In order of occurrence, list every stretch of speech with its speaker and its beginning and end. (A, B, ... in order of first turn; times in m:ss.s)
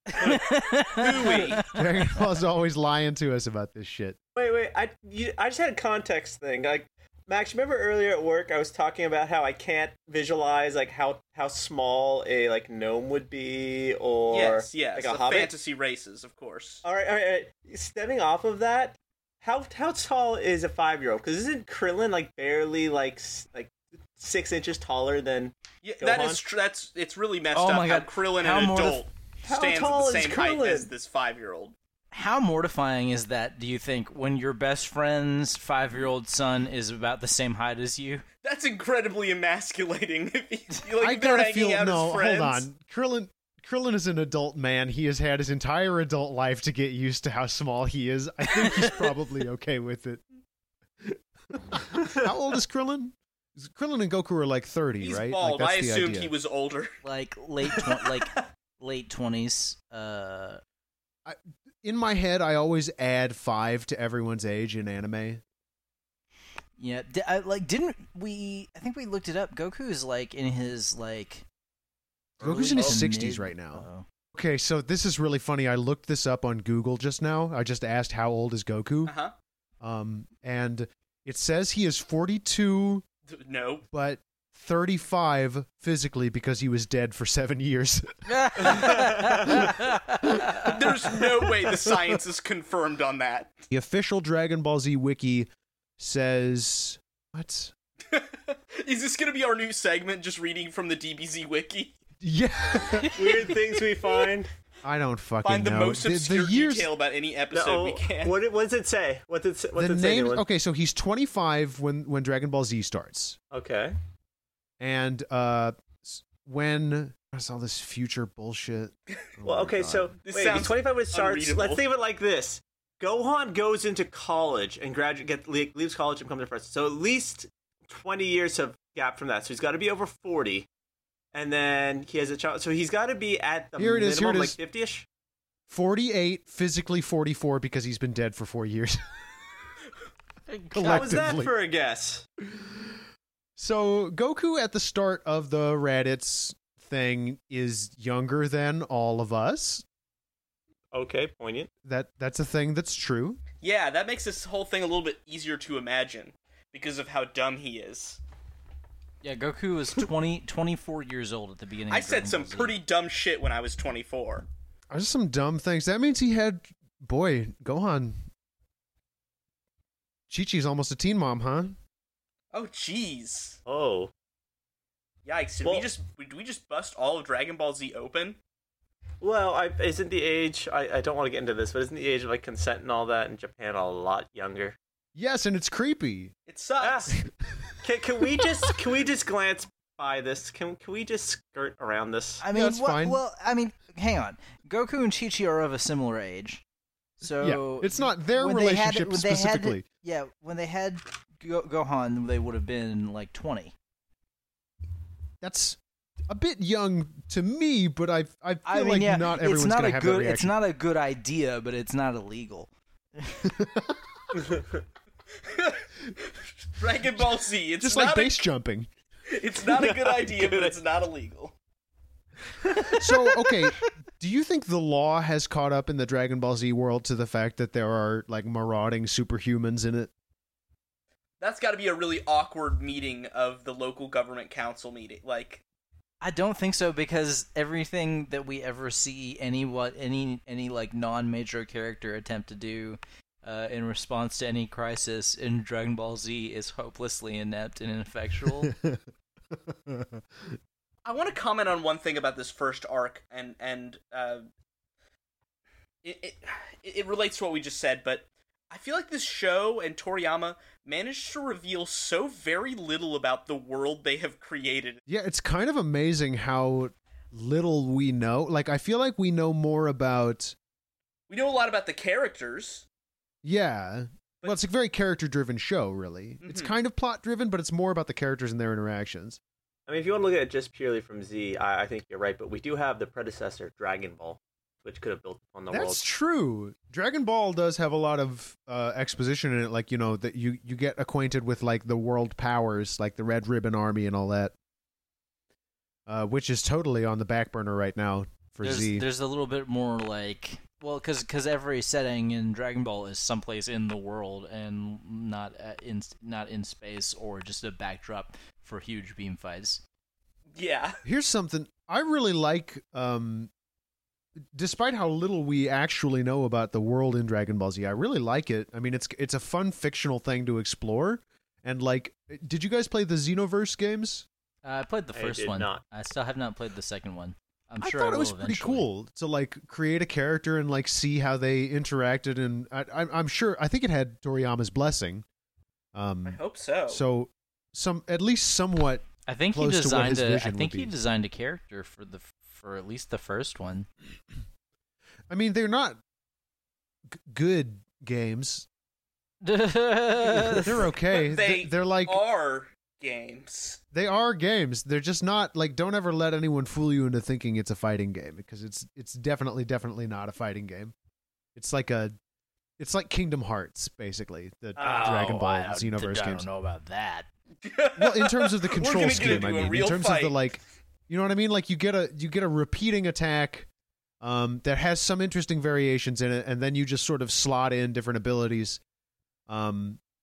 0:00.2-0:01.8 A
0:00.7-0:01.6 B
0:01.6-0:04.2 C
0:04.4-0:15.5 D
0:14.3-0:16.8 B
0:16.8-0:26.4 D
0:25.8-0:31.7 B
0:27.5-0:29.0 A
0:29.4-0:30.9 D
0:32.1-0:38.2 A
0:38.4-0:42.7 B
0:41.0-0:50.2 C
0:51.0-0:56.3 C
0:55.0-0:57.0 B
0:57.0-1:00.6 A
1:01.2-1:05.4 C
1:06.8-1:11.4 A
1:12.4-1:14.0 A
1:12.4-1:19.1 C
1:19.0-1:19.3 B
1:19.8-1:23.0 C
1:23.3-1:23.8 B
1:23.9-1:30.7 C
1:28.3-1:30.7 A
1:28.9-1:29.4 D
1:30.4-1:33.5 B
1:33.7-1:37.7 C
1:38.1-1:41.9 B
1:42.2-1:43.5 C
1:43.1-1:44.5 D
1:44.8-1:46.9 C
1:45.4-1:48.4 B
1:47.5-1:50.4 D
1:49.8-1:53.4 C
1:53.5-1:54.0 D
1:54.8-2:00.1 C
1:59.4-2:10.7 D
2:00.2-2:01.8 B
2:11.3-2:15.0 D
2:13.8-2:14.6 C
2:15.7-2:19.2 C
2:20.5-2:21.2 A
2:20.7-2:21.5 C
2:20.8-2:22.2 D
2:22.6-2:22.9 C
2:23.6-2:29.8 C
2:30.9-2:31.7 D
2:31.8-2:33.4 C
2:33.6-2:38.2 B
2:39.2-2:42.8 A
2:41.9-2:44.4 B
2:44.9-2:48.2 C
2:50.3-2:51.8 C
2:52.5-2:53.6 B
2:53.6-2:54.1 D
2:55.2-2:58.4 B
2:59.2-3:04.8 D
3:05.1-3:06.3 C
3:06.5-3:07.1 B
3:06.8-3:07.1 D
3:07.8-3:12.4 D
3:12.4-3:16.6 A
3:12.5-3:13.2 C
3:17.2-3:23.7 A
3:17.4-3:19.8 C
3:25.4-3:25.8 C
3:26.3-3:30.6 C
3:28.6-3:33.5 A
3:33.4-3:34.3 C
3:34.3-3:34.8 D
3:35.4-3:38.5 B
3:37.8-3:38.9 C
3:39.3-3:41.5 B
3:39.6-3:40.8 D
3:42.8-3:50.1 C
3:51.4-3:55.6 B
3:56.2-4:08.7 A
4:08.7-4:09.0 C
4:09.6-4:10.6 C
4:11.0-4:14.4 B
4:16.0-4:25.0 B
4:25.1-4:30.5 C
4:31.3-4:32.8 B
4:33.4-4:39.4 C
4:36.4-4:36.7 B
4:39.9-4:46.0 D
4:45.7-4:54.5 C
4:56.1-4:59.0 C
4:58.6-5:09.8 A
5:10.6-5:11.0 B
5:11.0-5:13.5 C
5:14.5-5:24.2 C
5:24.6-5:28.8 A
5:25.1-5:25.8 D
5:27.8-5:35.2 C
5:35.9-5:40.9 C
5:36.2-5:37.0 B
5:39.2-5:43.9 A
5:45.3-5:46.0 C
5:47.1-5:48.6 C
5:49.4-5:50.8 A
5:50.5-5:52.2 C
5:50.9-5:53.8 B
5:53.9-6:00.9 C
6:01.6-6:02.1 C
6:02.8-6:06.5 C
6:04.8-6:05.1 D
6:04.8-6:07.3 A
6:07.6-6:10.4 B
6:08.0-6:13.7 C
6:14.2-6:18.8 C
6:19.5-6:20.0 C